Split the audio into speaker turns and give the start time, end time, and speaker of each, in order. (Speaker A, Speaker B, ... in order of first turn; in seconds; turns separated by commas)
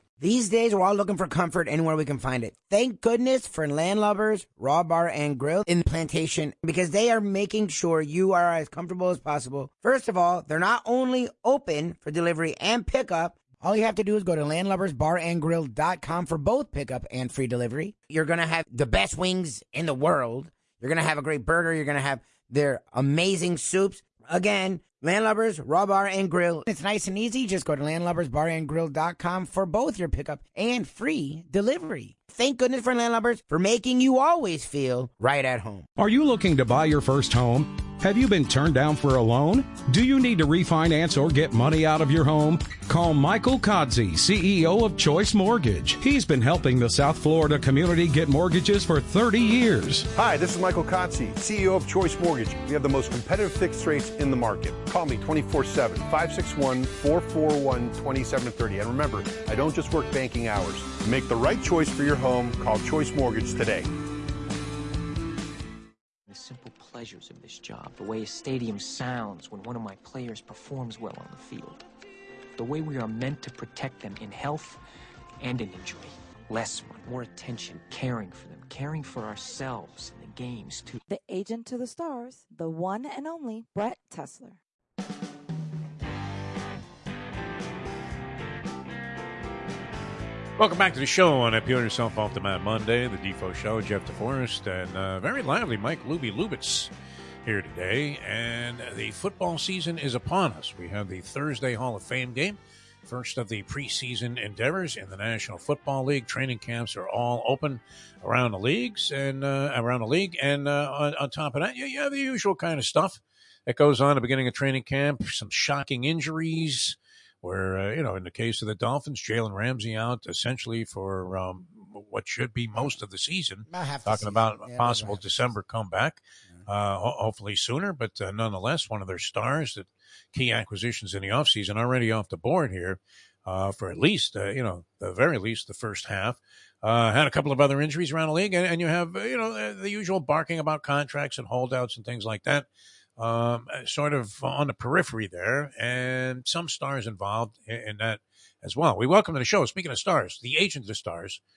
Speaker A: 0.2-35.9, Speaker B: 36.0-50.1, Speaker C: 50.1-63.9, Speaker D: 66.3-71.8, Speaker D: 72.6-74.8, Speaker D: 75.4-81.0, Speaker E: 81.1-84.6, Speaker F: 90.6-96.9, Speaker F: 97.4-151.4, Speaker A: 123.7-125.2